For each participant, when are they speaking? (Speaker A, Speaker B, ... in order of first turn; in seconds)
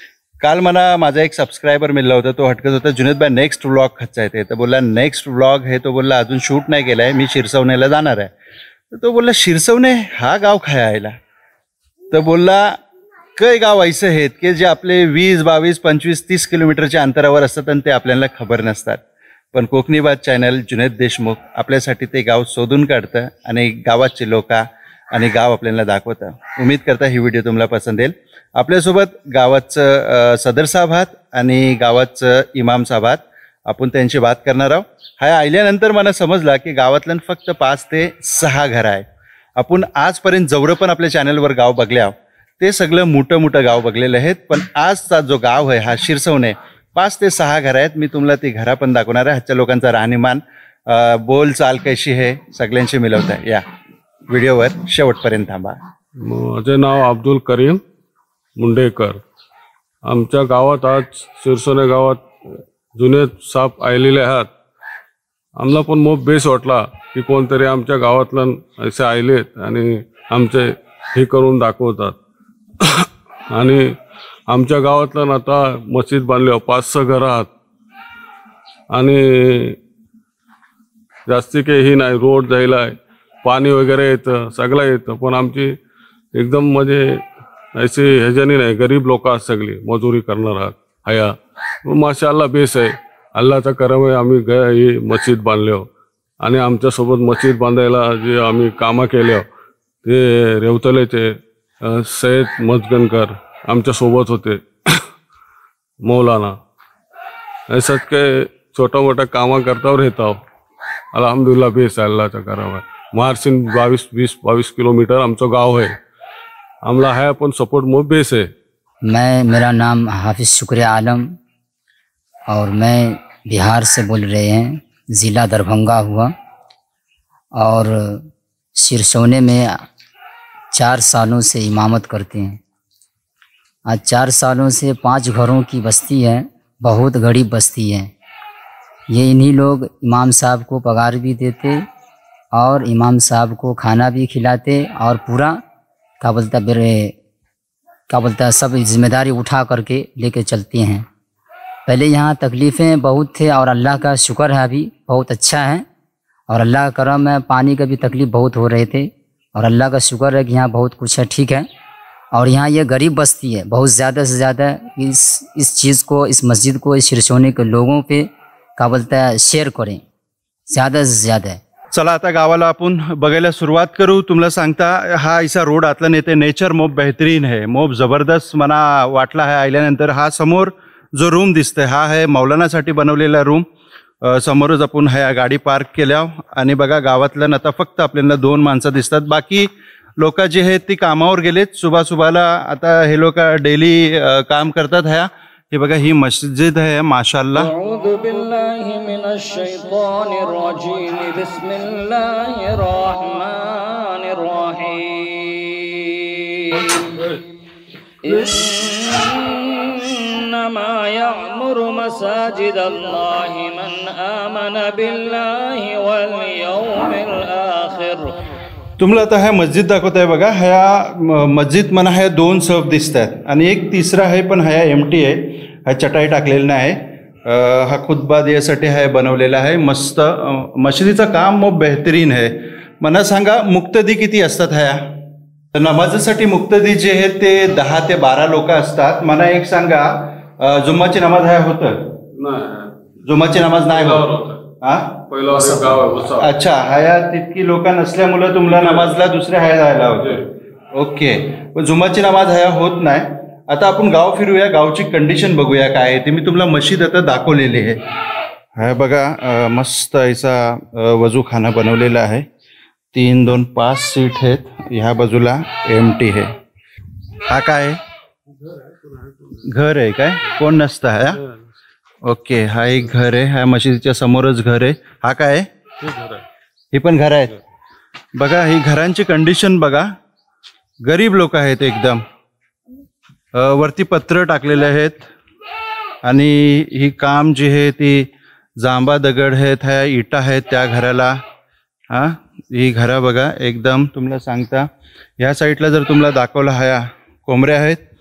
Speaker A: 0.4-8.3, 8.9-11.1, 12.1-12.8, 13.4-19.0, 19.5-39.0, 39.6-53.6, 54.3-55.8, 171.9-183.7, 184.2-197.7, 219.0-235.0, 235.7-242.0, 243.2-244.2, 244.8-250.4, 250.9-258.0, 258.8-262.5, 263.1-266.6, 267.5-268.0, 269.6-271.4, 272.2-275.7, 276.9-277.6, 278.4-280.1, 281.0-282.2, 283.5-285.3, 286.2-288.3, 288.8-291.4, 292.1-294.9, 295.4-298.0
Speaker B: 56.2-57.8, 58.6-59.2, 60.1-64.5, 65.6-72.2, 72.8-73.9, 74.5-77.5, 78.9-79.8, 81.3-85.7, 86.3-87.2, 87.8-95.9, 96.4-99.5, 100.0-105.1, 106.0-106.5, 107.7-110.4, 111.1-116.0, 116.8-118.5, 206.8-207.2, 242.3-242.9, 243.9-244.7, 245.3-246.5, 248.7-249.2, 268.6-269.6, 271.4-271.6, 276.0-276.5
Speaker C: 119.0-121.4, 122.5-126.3, 127.5-129.8, 130.7-132.6, 133.9-138.1, 139.1-141.8, 142.5-145.6, 146.2-147.2, 148.1-151.1, 151.9-155.9, 156.5-161.7, 162.3-170.0, 170.7-171.6
Speaker D: 197.7-206.9, 208.2-218.4